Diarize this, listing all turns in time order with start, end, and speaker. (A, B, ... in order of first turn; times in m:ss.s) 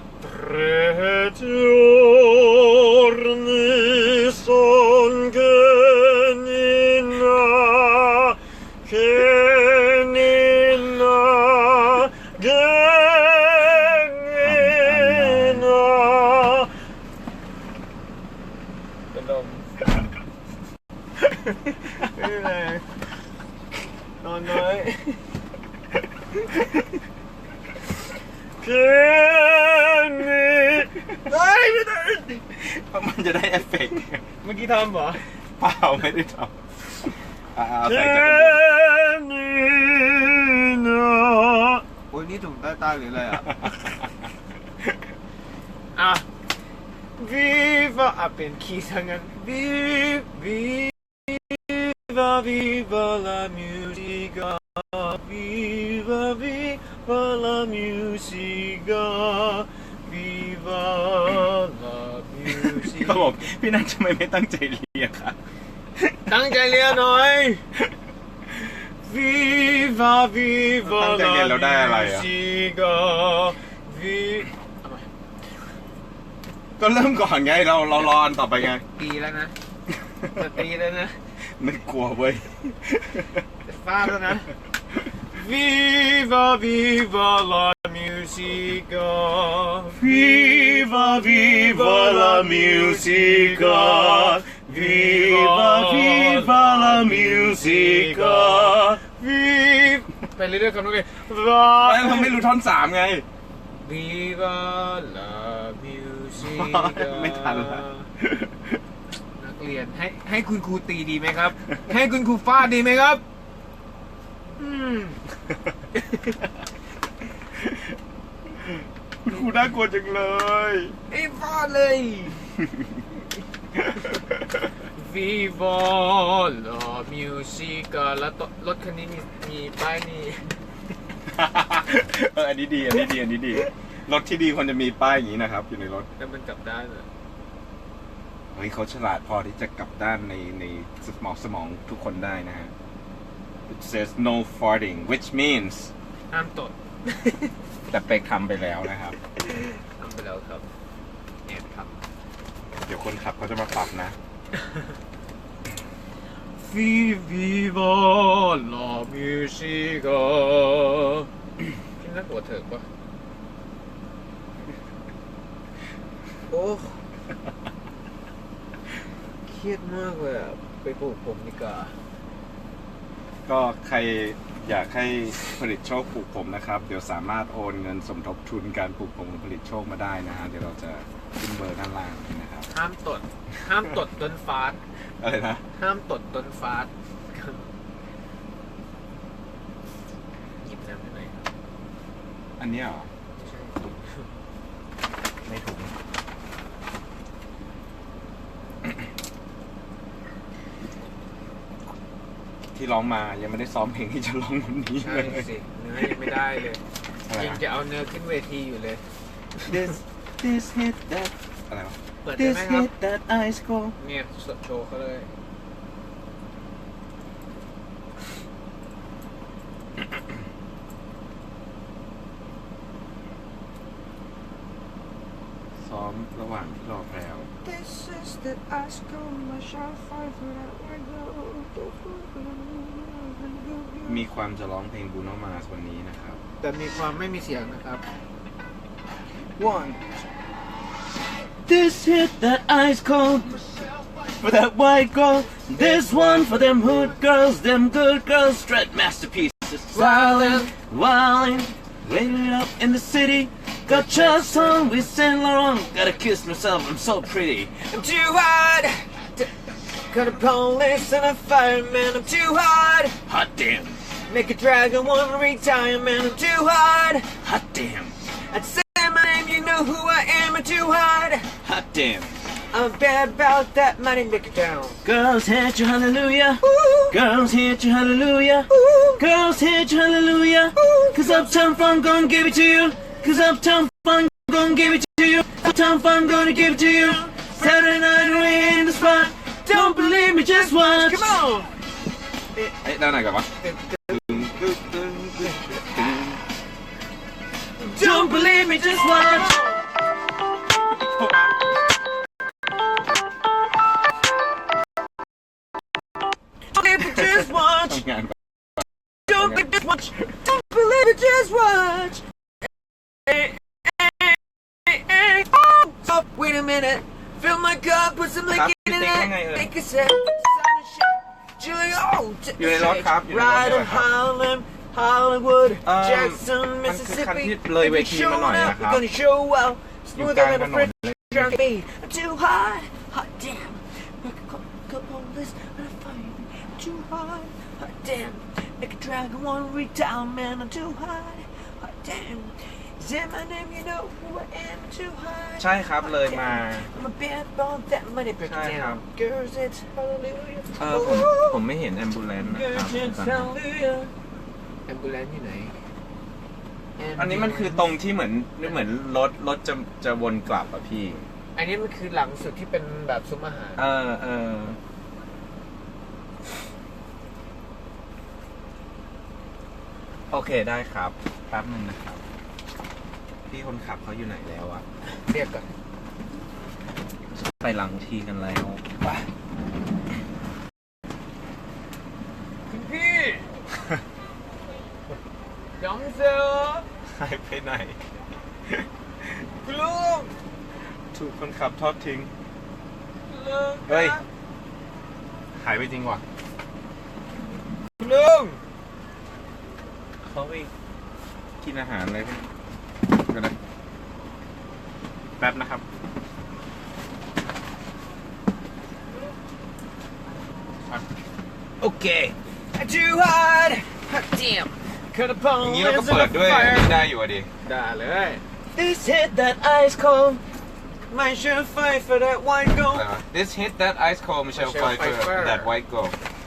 0:00.2-0:16.7 A
0:14.4-0:15.6 B
0:19.1-0:19.8 A
0:22.0-0:22.8 A
0:24.2-0:25.2 A
0:28.6-0:32.4 A
0:32.6-0:34.2 B
0:34.4-0:35.2 A
0:35.6-0:36.5 B
0:37.5-0:38.6 B
0:37.8-0:43.7 A
0:43.4-0:43.9 B
0:45.9-0:46.2 A
0:47.2-1:03.4 A
1:02.5-1:05.4 B
1:06.3-1:07.6 A
1:09.0-1:15.1 A
1:10.8-1:12.3 B
1:16.8-1:18.8 B
1:18.6-1:19.5 A
1:20.3-1:21.2 A
1:21.6-1:23.4 B
1:23.6-1:24.5 A
1:25.3-1:42.4 A
1:30.0-1:39.0 C
1:41.8-1:43.2 B
1:43.8-1:48.1 A
1:46.4-1:48.8 B
1:49.4-1:53.2 A
1:54.6-1:55.2 A
1:57.5-1:57.9 B
1:59.2-2:00.9 B
2:01.1-2:02.4 A
2:02.6-2:03.0 B
2:03.8-2:04.7 B
2:04.9-2:10.6 A
2:11.3-2:16.1 B
2:16.2-2:17.1 A
2:18.5-2:22.7 B
2:23.7-2:25.9 B
2:26.3-2:27.5 A
2:27.9-2:29.1 B
2:29.4-2:30.6 A
2:31.4-2:32.0 A
2:32.8-2:34.2 B
2:34.6-2:34.8 A
2:36.6-2:41.3 A
2:42.0-2:42.8 A
2:46.5-2:47.0 A
2:49.5-2:52.0 A
2:53.4-3:02.7 B
3:02.7-3:04.8 A
3:05.2-3:05.6 B
3:05.8-3:07.7 A
3:10.6-3:11.5 A
3:12.6-3:13.1 B
3:13.3-3:14.3 A
3:15.4-3:15.9 B
3:22.7-3:25.5 B
3:25.0-3:26.8 A
3:27.2-3:27.6 B
3:27.3-3:29.0 A
3:29.6-3:29.9 A
3:29.6-3:34.0 B
3:32.2-3:32.9 A
3:34.0-3:35.3 A
3:45.8-3:47.5 B
3:47.6-3:54.2 A
3:54.0-3:56.4 B
3:56.6-3:58.0 A
4:01.7-4:03.7 C
4:04.3-4:17.8 C
4:05.7-4:07.2 A
4:09.9-4:10.7 A
4:13.9-4:15.1 A
4:17.8-4:19.5 A
4:20.1-4:23.2 A
4:23.3-4:24.0 C
4:24.3-4:27.3 A
4:27.4-4:28.1 C
4:28.5-4:31.5 A
4:31.6-4:31.9 B
4:31.7-4:32.3 C
4:32.7-4:35.0 A
4:35.0-4:51.3 C
4:36.6-4:37.2 A
4:38.7-4:39.2 A
4:40.8-4:41.5 A
4:46.2-4:51.7 A
4:52.6-4:56.4 B
4:53.6-4:54.4 A
4:57.8-4:59.8 A
4:58.0-4:59.6 C
5:00.8-5:01.6 B
5:06.7-5:08.0 A
5:07.0-5:08.8 B
5:09.3-5:12.2 A
5:13.2-5:51.6 A
5:18.5-5:19.7 B
5:22.6-5:24.1 B
5:25.8-5:29.0 B
5:30.1-5:31.6 B
5:45.6-5:46.9 B
5:48.4-5:49.0 B
5:50.8-5:53.5 B
5:52.4-5:54.1 A
5:54.9-5:55.8 A
5:57.0-5:57.9 A
5:57.2-6:01.2 B
6:01.6-6:03.9 A
6:03.8-6:04.8 B
6:10.3-6:12.2 B
6:13.5-6:14.8 B
6:15.1-6:15.7 A
6:17.3-6:18.8 B
6:22.7-6:23.6 A
6:25.8-6:26.9 A
6:27.0-6:28.0 B
6:29.6-6:30.3 A
6:31.1-6:32.3 B
6:33.3-6:34.2 A
6:33.9-6:34.2 B
6:35.6-6:36.2 B
6:38.0-6:38.6 A
6:40.2-6:40.7 B
6:41.6-6:42.4 B
6:43.1-6:43.6 B
6:45.4-6:45.8 B
6:51.8-6:57.1 A
6:55.6-6:57.5 B
6:57.6-6:58.4 A
6:58.8-7:00.4 C
7:01.1-7:03.1 A
7:02.9-7:06.1 B
7:04.5-7:05.7 A